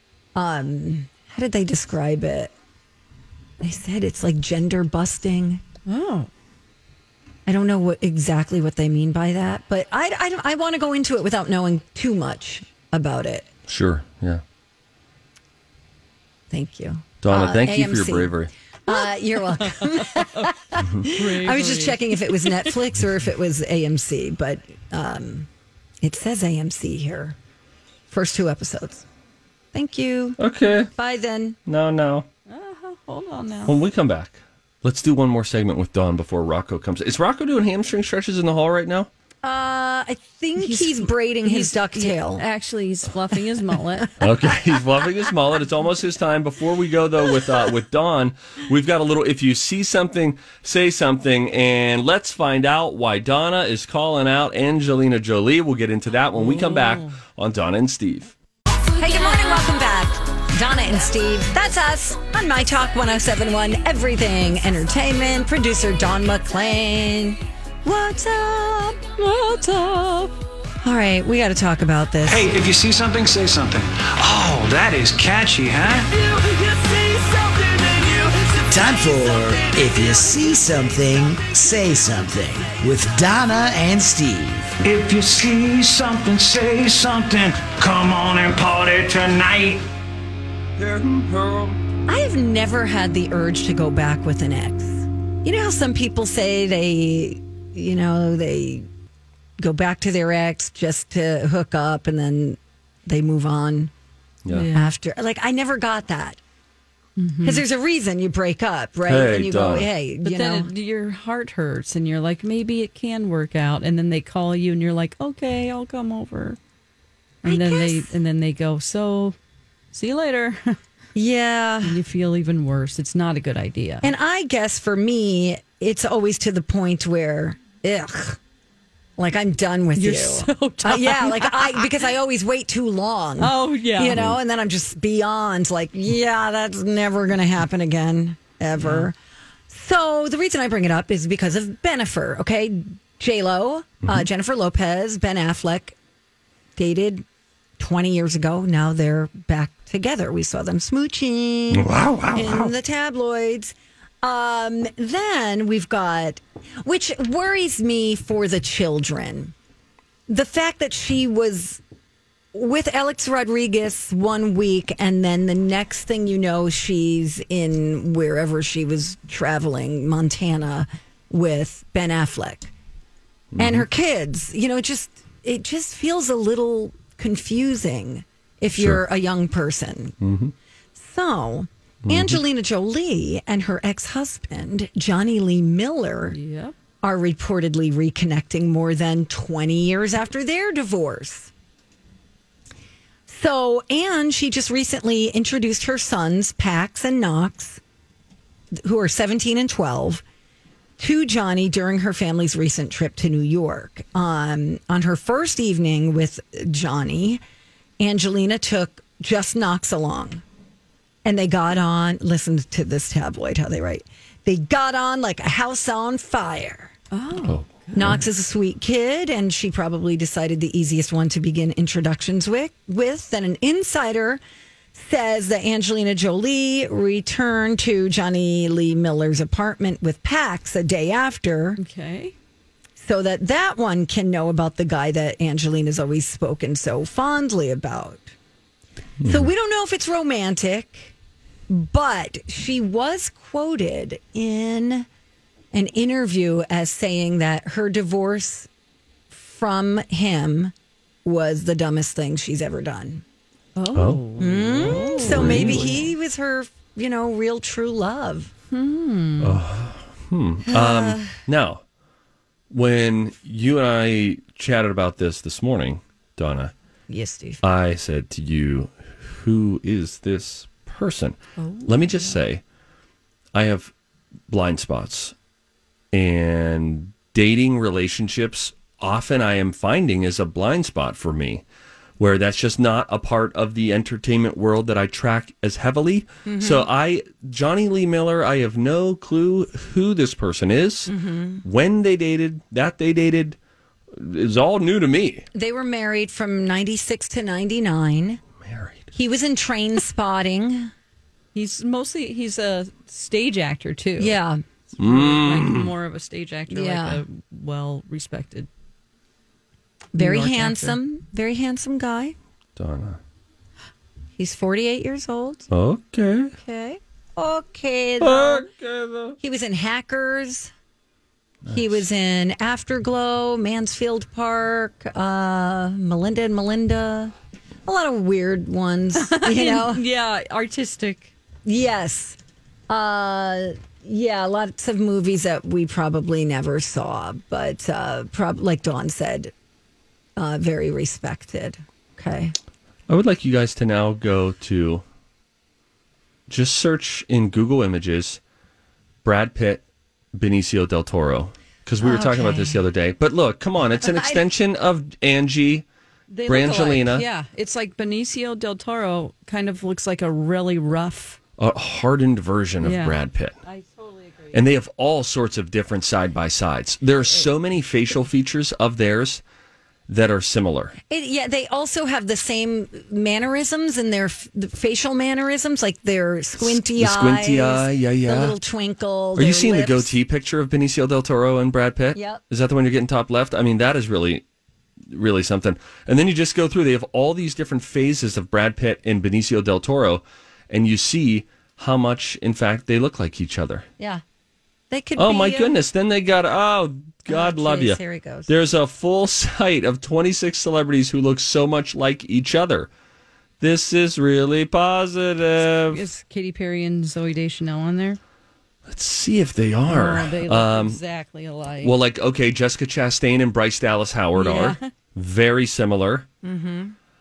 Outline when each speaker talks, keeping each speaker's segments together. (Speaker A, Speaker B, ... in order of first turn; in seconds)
Speaker A: 0.3-2.5, 3.6-5.6, 7.5-13.5, 16.5-18.4, 18.9-25.5, 26.0-27.4, 28.1-29.0, 29.7-30.4, 30.9-31.6, 39.4-42.4, 59.0-69.1, 70.8-72.5, 92.1-98.9, 99.6-103.9, 104.7-106.4, 107.4-110.7, 117.4-118.1, 121.1-122.0, 124.0-128.4, 129.2-139.2, 139.7-146.0, 146.8-147.2, 147.8-159.5, 160.3-161.8, 162.5-172.7, 173.6-180.2, 180.9-186.4, 187.0-191.5, 193.3-197.8, 198.8-200.2, 201.0-207.4, 208.0-210.4, 211.2-216.9, 217.9-224.4, 224.9-231.8, 233.0-238.3, 239.2-241.1, 241.7-245.1, 245.7-248.7, 249.3-250.7, 251.2-253.2, 254.4-258.5, 260.7-261.3, 267.1-267.6, 286.5-286.9, 291.1-291.6, 295.5-298.4, 299.1-300.9, 304.2-304.6, 306.7-307.2, 310.1-312.4, 314.4-315.7, 316.6-318.7, 319.4-320.7, 321.7-327.3, 327.9-330.0, 331.6-332.4, 332.9-339.5, 340.4-342.5, 352.0-352.8, 354.0-354.4, 371.1-380.1, 382.1-382.4, 394.9-395.8, 397.3-398.5, 416.4-416.9
Speaker B: 5.9-6.3, 19.6-22.7, 32.5-33.7, 40.6-44.1, 56.4-57.2, 69.2-70.3, 104.5-104.9, 107.2-107.6, 110.2-116.6, 117.4-119.3, 119.9-120.8, 121.8-124.1, 130.0-131.9, 133.4-134.2, 138.8-139.1, 186.3-186.8, 217.1-218.1, 231.8-232.3, 253.8-256.0, 258.7-259.6, 271.6-272.3, 301.5-304.4, 304.9-308.7, 310.1-311.0, 329.2-331.3, 356.3-361.4, 362.8-364.6, 405.6-408.2, 409.9-411.9, 414.4-414.9
Speaker C: 13.7-14.4, 17.2-18.5, 30.4-30.9, 31.6-32.2, 33.7-39.1, 44.2-58.3, 90.8-91.8, 109.1-109.9, 134.1-134.4, 151.7-152.7, 173.5-173.8, 178.8-179.0, 180.2-180.5, 182.0-182.4, 217.4-218.2, 239.2-239.5, 253.9-254.2, 255.1-256.0, 259.4-261.8, 262.7-266.7, 267.6-272.6, 273.5-273.9, 274.5-275.3, 276.1-281.6, 282.2-291.1, 291.6-293.6, 294.1-295.5, 298.6-299.1, 305.0-305.9, 312.8-313.2, 315.7-316.5, 318.2-319.4, 321.6-322.0, 343.1-345.0, 346.5-348.4, 349.2-349.8, 350.3-355.9, 356.5-357.2, 361.6-363.5, 364.5-369.4, 370.1-370.9, 376.6-378.6, 379.4-384.4, 385.1-393.9, 395.1-402.9, 403.6-406.0, 408.9-411.0, 411.8-416.3
Speaker D: 72.2-78.7, 84.8-89.8
Speaker E: 78.7-84.8